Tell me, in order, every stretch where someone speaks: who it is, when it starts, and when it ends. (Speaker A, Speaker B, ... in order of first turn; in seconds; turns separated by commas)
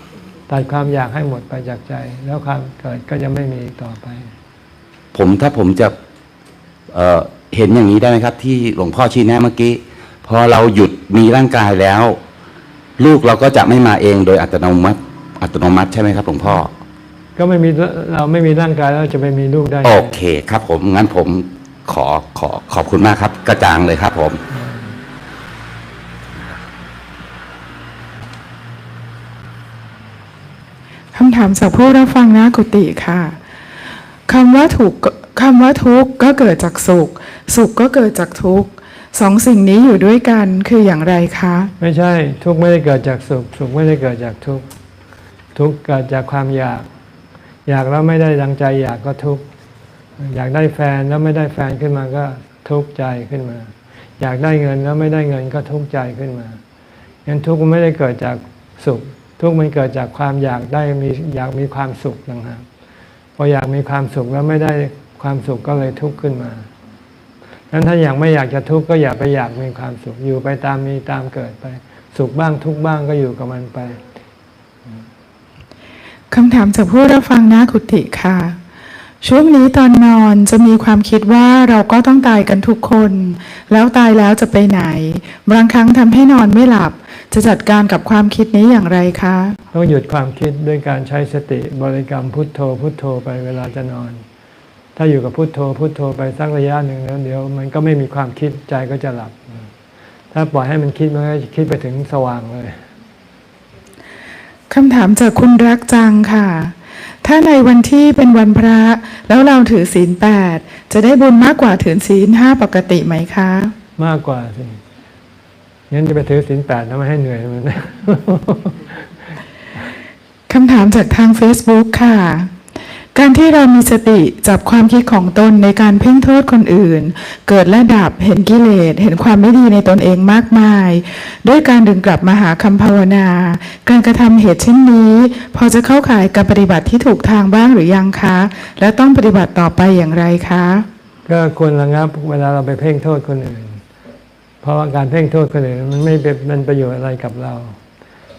Speaker A: 0.5-4.3, Speaker B: 5.1-6.0, Speaker B: 6.9-12.2, Speaker B: 13.0-16.7, Speaker A: 17.4-20.2, Speaker B: 19.8-24.4, Speaker A: 24.5-24.9, Speaker C: 31.1-33.4, Speaker C: 34.3-41.7, Speaker A: 41.8-44.6, Speaker A: 45.5-46.9, Speaker A: 47.7-49.5, Speaker A: 50.2-56.6, Speaker A: 57.3-62.6, Speaker A: 63.4-66.7, Speaker A: 67.7-74.0, Speaker C: 76.3-78.6, Speaker C: 79.2-89.6, Speaker A: 89.7-94.2, Speaker A: 95.0-99.7, Speaker A: 100.3-102.8, Speaker C: 104.7-113.7, Speaker A: 114.0-114.8, Speaker A: 115.9-118.9, Speaker C: 120.5-122.5, Speaker C: 123.2-140.9, Speaker A: 141.3-143.8, Speaker A: 144.6-147.8